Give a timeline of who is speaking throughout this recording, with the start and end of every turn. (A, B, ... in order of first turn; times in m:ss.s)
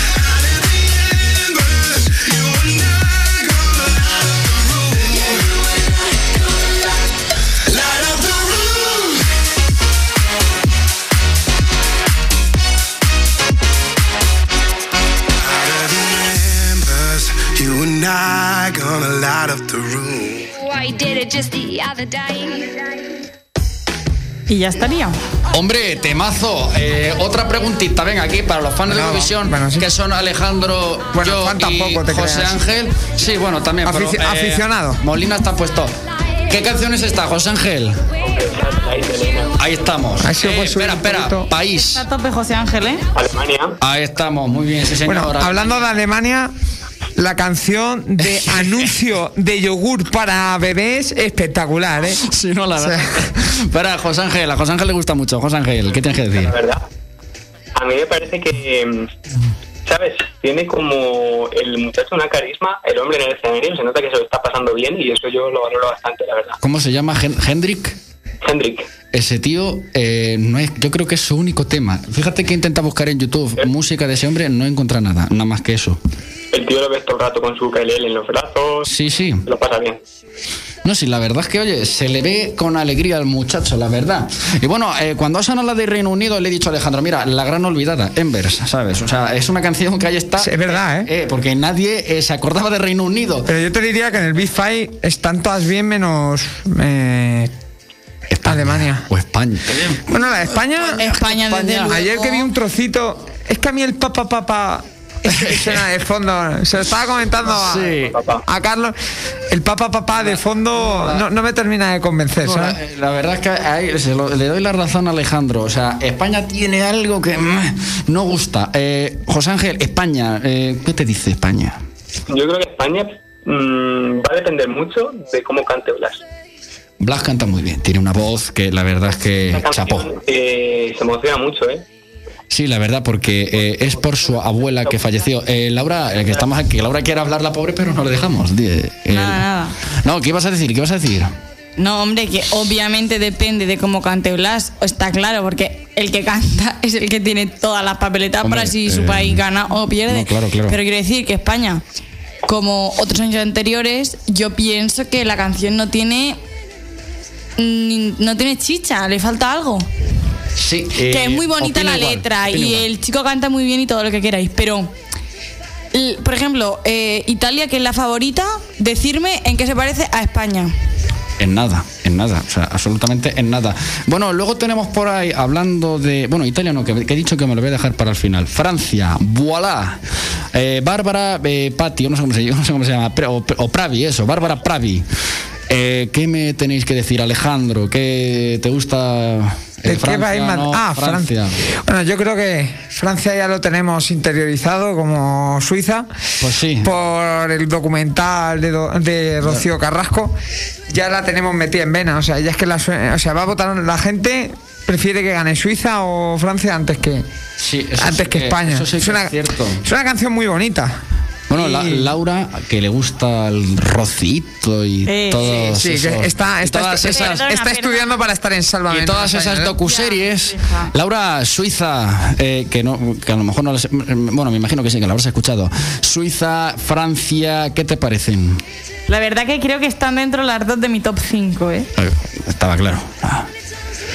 0:00.2-0:05.3 A
0:07.7-0:09.1 A
0:15.5-0:20.5 A
0:20.5-0:22.8 B
0:24.5-0:25.2 C
0:25.5-0:38.0 D
0:28.9-0:29.9 E
0:31.1-0:32.6 E
0:33.9-0:35.0 E
0:38.2-0:39.5 F
0:39.6-0:42.0 D
0:40.2-0:41.5 E
0:41.7-0:43.0 C
0:43.2-0:43.8 F
0:43.8-0:46.0 D
0:45.0-0:46.5 E
0:47.2-0:52.2 E
0:48.2-0:48.9 D
0:52.1-0:56.6 D
0:52.8-0:53.2 E
0:56.3-0:56.8 F
0:57.8-0:59.1 F
0:59.8-1:06.6 F
1:06.6-1:08.0 D
1:08.4-1:08.9 F
1:09.1-1:16.0 D
1:16.5-1:18.9 F
1:18.8-1:19.5 D
1:19.5-1:20.0 F
1:20.8-1:33.5 D
1:30.4-1:31.1 E
1:33.5-1:37.5 E
1:38.3-1:40.1 D
1:38.4-1:39.1 E
1:40.1-1:49.0 E
1:40.8-1:42.5 C
1:41.0-1:41.9 D
1:45.3-1:45.9 D
1:47.5-1:48.2 D
1:47.9-1:48.4 F
1:49.5-1:52.8 E
1:50.1-1:51.3 D
1:52.4-2:01.8 D
2:02.3-2:06.2 F
2:07.0-2:10.1 D
2:09.5-2:11.8 F
2:12.5-2:21.3 D
2:13.8-2:15.1 F
2:19.1-2:19.8 C
2:21.8-2:31.8 C
2:28.4-2:29.4 D
2:30.1-2:30.8 D
2:32.5-2:36.4 C
2:37.6-2:39.9 C
2:40.6-2:42.9 D
2:41.1-2:44.9 C
2:45.9-2:50.7 C
2:51.4-3:05.1 D
3:05.7-3:11.6 D
3:09.9-3:16.2 E
3:16.4-3:16.9 D
3:16.8-3:20.4 E
3:19.4-3:19.7 D
3:20.9-3:27.3 E
3:27.6-3:29.8 D
3:28.0-3:31.0 E
3:31.5-3:37.5 D
3:31.5-3:32.1 E
3:35.1-3:35.7 C
3:35.5-3:39.8 E
3:37.1-3:38.2 C
3:38.9-3:48.6 D
3:39.8-3:40.9 C
3:49.1-3:51.9 C
3:52.0-3:53.5 D